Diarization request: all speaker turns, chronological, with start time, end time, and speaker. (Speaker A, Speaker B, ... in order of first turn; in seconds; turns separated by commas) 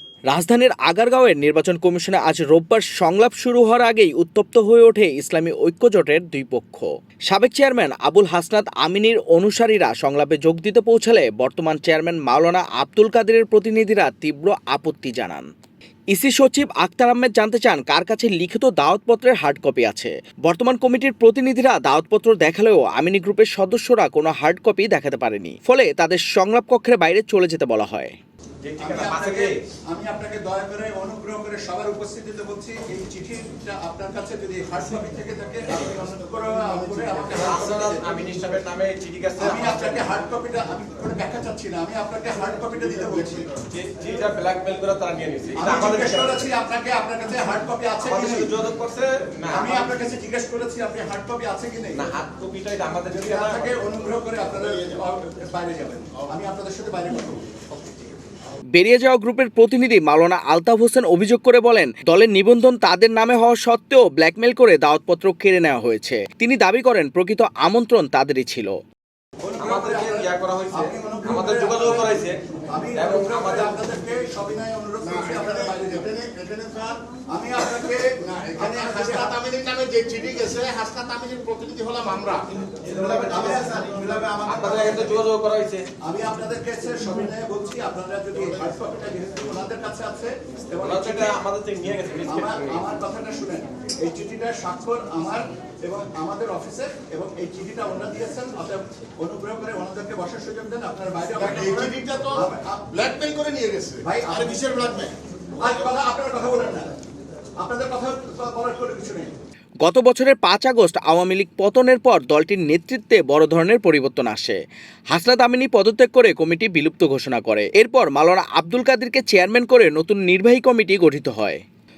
Speaker A: 0.3-15.4, Speaker A: 16.1-28.1, Speaker B: 28.6-29.5, Speaker C: 28.8-38.3, Speaker D: 35.9-37.5, Speaker B: 37.3-40.2, Speaker C: 39.4-43.5, Speaker D: 42.7-43.6, Speaker B: 43.7-46.5, Speaker C: 45.6-48.5, Speaker B: 48.0-49.9, Speaker C: 49.5-52.1, Speaker B: 51.9-53.9, Speaker C: 53.1-57.8, Speaker D: 54.5-55.0, Speaker A: 58.7-68.7, Speaker C: 69.4-76.2, Speaker B: 69.6-72.4, Speaker B: 73.0-73.8, Speaker D: 75.0-77.0, Speaker C: 77.3-79.3, Speaker D: 77.6-85.0, Speaker C: 82.8-85.2, Speaker B: 84.5-85.8, Speaker C: 86.0-91.4, Speaker B: 90.8-92.8, Speaker C: 92.2-102.9, Speaker D: 101.4-105.1, Speaker C: 104.0-104.7, Speaker C: 105.6-106.9, Speaker C: 107.6-109.3, Speaker A: 109.8-114.6, Speaker A: 115.1-121.6